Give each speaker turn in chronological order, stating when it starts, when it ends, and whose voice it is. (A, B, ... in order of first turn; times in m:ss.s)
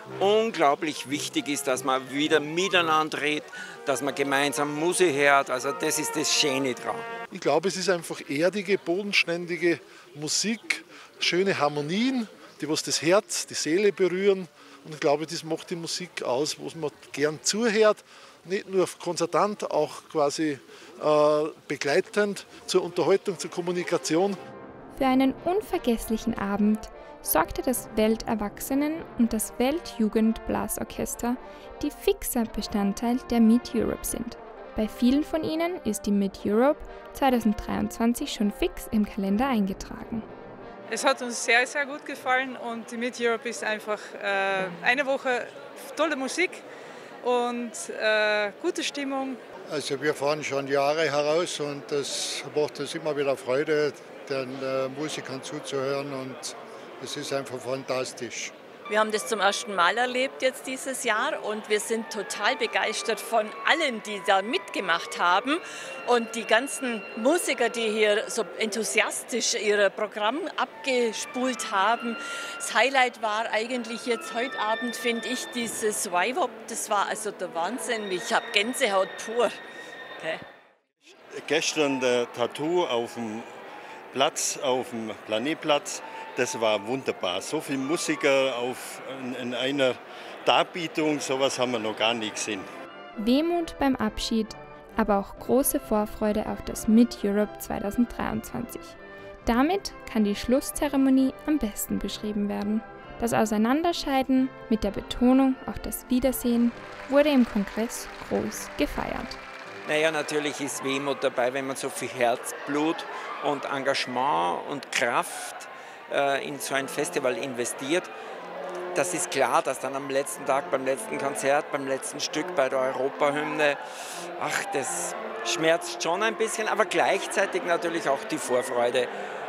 0:00.2-0:06.9 A
0:07.3-0:09.1 B
0:10.2-0:17.6 B
0:18.4-0:20.2 B
0:21.0-0:24.2 B
0:24.9-0:40.2 C
0:40.9-0:46.6 D
0:47.2-0:49.4 D
0:49.7-0:58.5 E
0:58.9-1:19.6 F
1:21.4-1:23.5 G
1:24.1-1:32.7 G
1:33.2-1:49.4 C
1:49.8-1:58.1 A
1:58.9-2:03.8 A
2:04.4-2:09.1 A